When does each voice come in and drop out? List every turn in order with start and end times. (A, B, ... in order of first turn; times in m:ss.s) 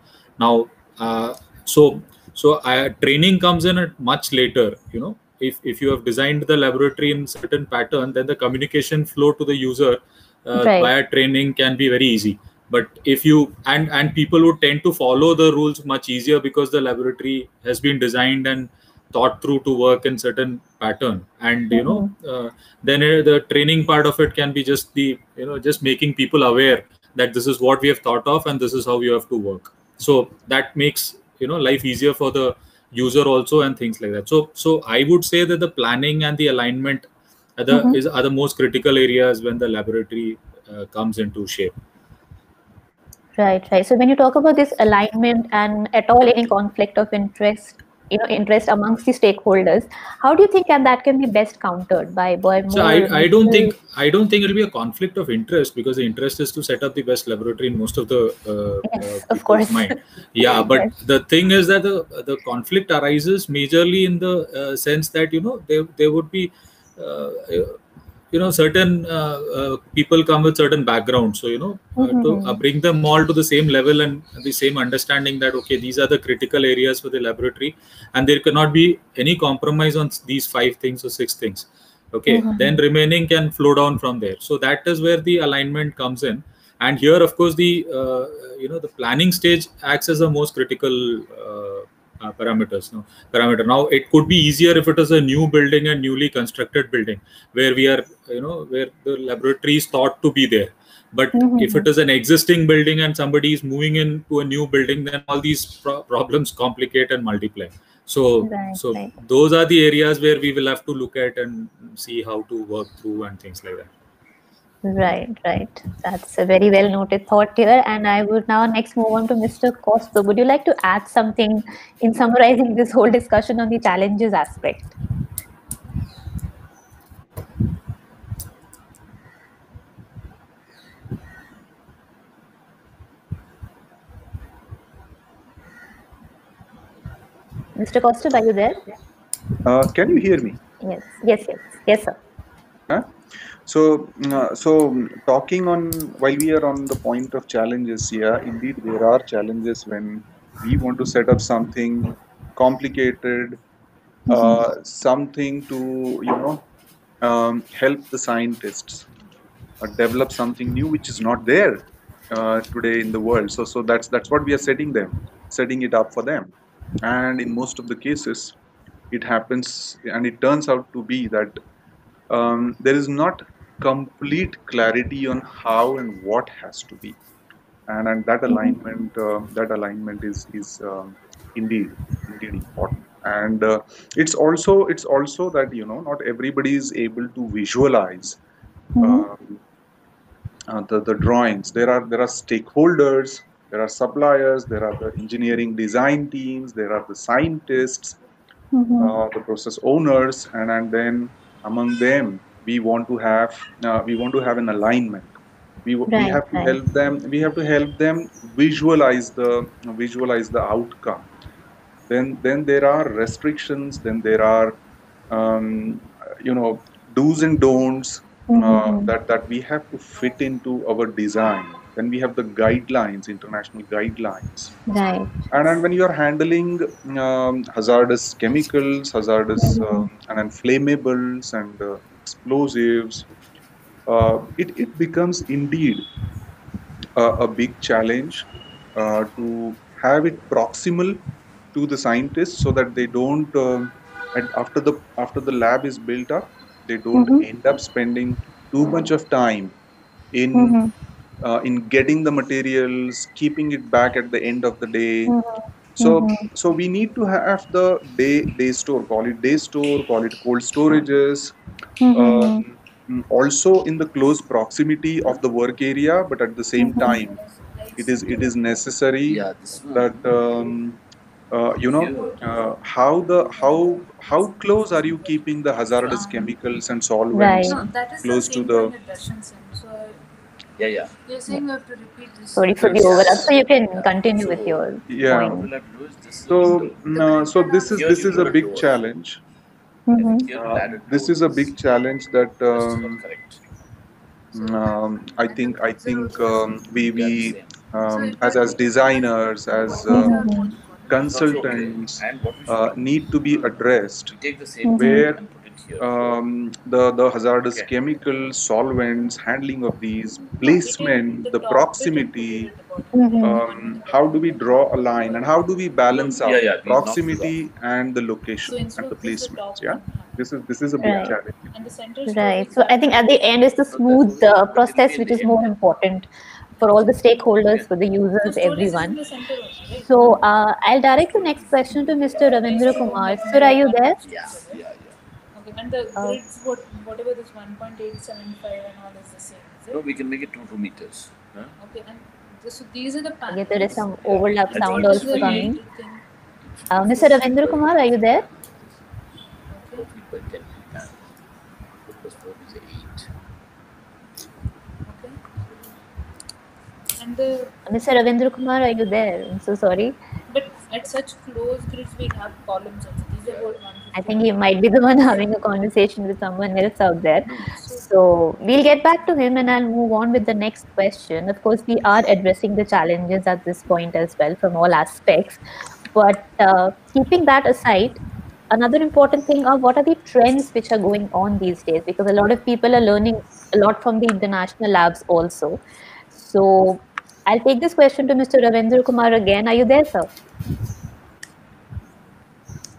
0:00.4-0:41.7 A
0:10.6-0:10.9 B
0:21.7-0:22.1 B
0:37.7-0:38.0 B
0:43.4-0:53.7 B
0:52.7-1:07.8 A
0:58.9-1:00.9 B
1:08.3-1:53.9 A
1:12.0-1:12.6 B
1:22.3-1:22.8 B
1:41.4-1:41.9 B
1:48.4-1:49.1 B
1:54.8-2:04.9 B
2:17.8-2:18.8 B
2:19.6-2:20.6 C
2:20.8-2:22.2 B
2:23.6-2:33.6 C
2:34.3-2:34.6 B
2:34.3-2:36.6 C
2:37.2-2:39.1 C
2:39.8-2:48.6 C
2:49.1-2:51.6 C
2:52.3-2:57.2 C
2:57.9-3:08.4 C
2:58.5-2:58.8 B
3:09.0-3:09.2 B
3:09.0-3:09.6 C
3:10.7-3:18.2 C
3:18.7-3:19.1 B
3:19.0-3:25.3 C
3:25.8-3:31.3 C
3:26.1-3:26.8 B
3:32.1-3:34.8 C
3:35.3-3:44.7 C
3:38.5-3:39.1 B
3:44.9-3:45.3 B
3:45.5-3:53.3 C
3:49.6-3:50.1 B
3:54.1-3:56.0 C
3:57.2-4:01.2 C
4:01.7-4:09.7 C
4:07.1-4:07.4 B
4:10.3-4:10.8 C
4:10.5-4:10.9 B
4:11.4-4:15.3 C
4:15.3-4:16.5 B
4:16.0-4:21.5 C
4:22.0-4:22.6 B
4:22.1-4:27.4 C
4:26.8-4:27.2 B
4:26.9-4:28.9 D
4:28.0-4:31.0 C
4:29.3-4:30.2 E
4:31.5-4:38.9 C
4:31.8-4:32.4 E
4:32.0-4:36.6 D
4:37.3-4:37.8 B
4:37.6-4:40.2 D
4:40.8-4:41.1 E
4:41.2-4:43.2 D
4:42.5-4:45.7 B
4:42.8-4:43.3 C
4:42.8-4:48.9 E
4:45.1-4:45.7 C
4:46.5-4:49.4 C
4:47.1-4:48.7 D
4:50.1-4:50.5 B
4:50.1-4:51.8 E
4:50.5-4:53.2 C
4:52.7-4:53.6 E
4:54.5-4:57.0 D
4:54.5-5:00.4 C
4:57.0-4:57.8 E
4:58.0-5:01.4 D
5:00.1-5:00.7 B
5:01.1-5:04.3 C
5:01.3-5:06.4 E
5:04.8-5:05.3 B
5:05.0-5:05.4 C
5:06.0-5:12.7 C
5:10.3-5:15.8 D
5:13.1-5:13.6 B
5:13.4-5:21.6 C
5:16.1-5:17.6 E
5:18.6-5:20.4 D
5:21.0-5:23.4 D
5:21.0-5:21.4 B
5:22.3-5:26.3 B
5:23.9-5:25.8 E
5:26.8-5:29.2 B
5:27.6-5:27.9 E
5:28.4-5:30.4 D
5:30.0-5:34.2 B
5:31.3-5:32.8 E
5:32.2-5:34.8 D
5:34.2-5:35.2 E
5:35.5-5:40.0 D
5:39.9-5:41.7 E
5:41.8-5:44.1 D
5:43.5-5:45.8 B
5:44.0-5:45.8 E
5:44.7-5:46.2 D
5:46.6-5:49.0 E
5:46.9-5:48.4 B
5:49.7-5:50.1 D
5:49.9-5:51.3 E
5:52.0-5:53.3 E
5:55.0-5:55.4 D
5:57.2-5:57.7 D
5:57.9-6:00.2 B
6:00.5-6:04.8 D
6:03.4-6:03.8 E
6:04.1-6:15.6 B
6:07.4-6:07.8 E
6:07.8-6:08.0 D
6:16.1-6:18.2 B
6:18.7-6:25.8 B
6:26.3-6:30.3 B